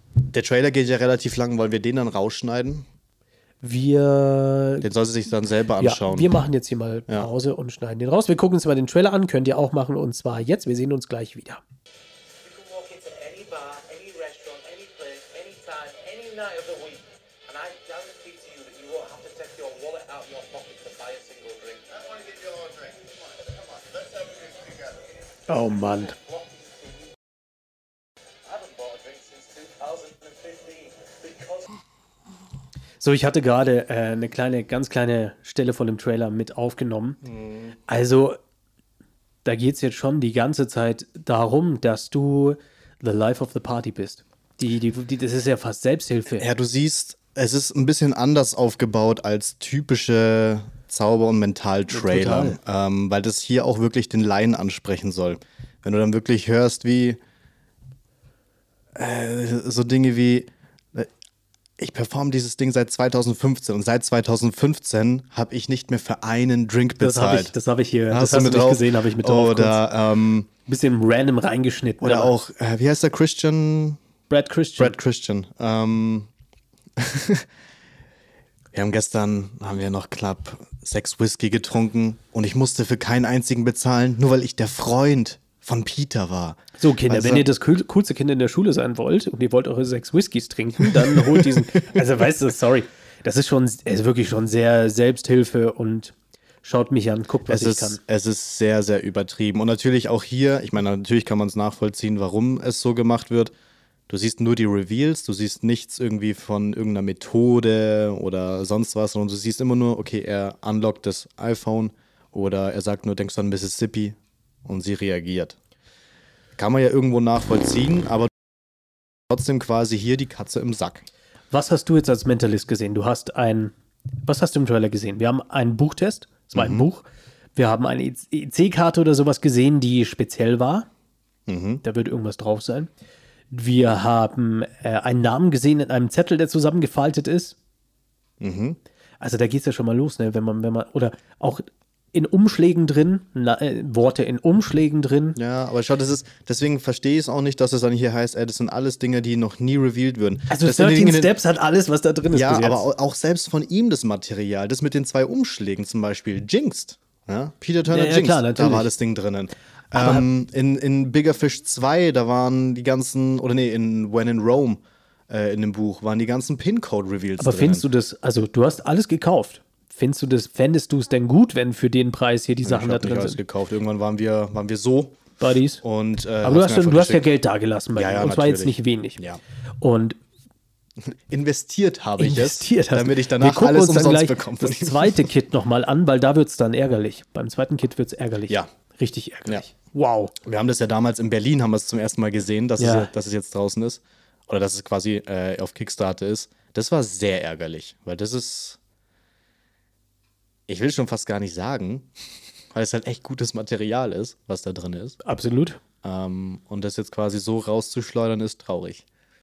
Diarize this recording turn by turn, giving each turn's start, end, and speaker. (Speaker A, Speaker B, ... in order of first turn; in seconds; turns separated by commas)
Speaker A: 0.2-2.9, Speaker B: 3.6-4.9, Speaker A: 4.8-6.4, Speaker B: 5.8-11.6, Speaker C: 12.5-23.0, Speaker C: 23.5-24.9, Speaker B: 25.5-26.2, Speaker C: 28.6-31.6, Speaker B: 33.0-37.2, Speaker A: 37.3-37.7, Speaker B: 37.9-38.4, Speaker B: 39.5-46.5, Speaker A: 46.4-57.2, Speaker B: 51.9-52.6, Speaker A: 59.0-61.1, Speaker A: 61.8-67.5, Speaker B: 67.0-69.8, Speaker A: 68.1-70.5, Speaker B: 70.7-72.3, Speaker A: 72.0-74.0, Speaker B: 74.3-75.0, Speaker A: 74.8-76.3, Speaker A: 77.0-77.5, Speaker A: 78.7-87.5, Speaker B: 86.8-98.0, Speaker A: 90.9-91.7, Speaker A: 97.5-103.5, Speaker A: 104.1-115.6, Speaker A: 116.6-118.3, Speaker A: 119.3-121.1, Speaker B: 121.5-123.7, Speaker B: 124.2-130.9, Speaker A: 126.5-126.9, Speaker A: 131.5-131.8, Speaker B: 131.8-132.9, Speaker B: 133.5-137.6, Speaker A: 138.4-138.8, Speaker B: 139.2-145.4, Speaker A: 145.4-151.3, Speaker B: 150.5-152.8, Speaker A: 152.3-167.8, Speaker B: 157.9-158.9, Speaker B: 159.9-160.2, Speaker B: 167.4-173.4, Speaker A: 172.6-175.3, Speaker B: 175.4-175.8, Speaker A: 175.8-177.2, Speaker B: 176.4-179.2, Speaker A: 177.9-179.4, Speaker B: 179.8-180.2, Speaker A: 181.0-185.3, Speaker B: 182.2-190.3, Speaker A: 190.4-198.8, Speaker B: 192.8-193.1, Speaker A: 200.7-202.1, Speaker A: 202.7-205.2, Speaker B: 205.2-205.8, Speaker A: 206.0-209.0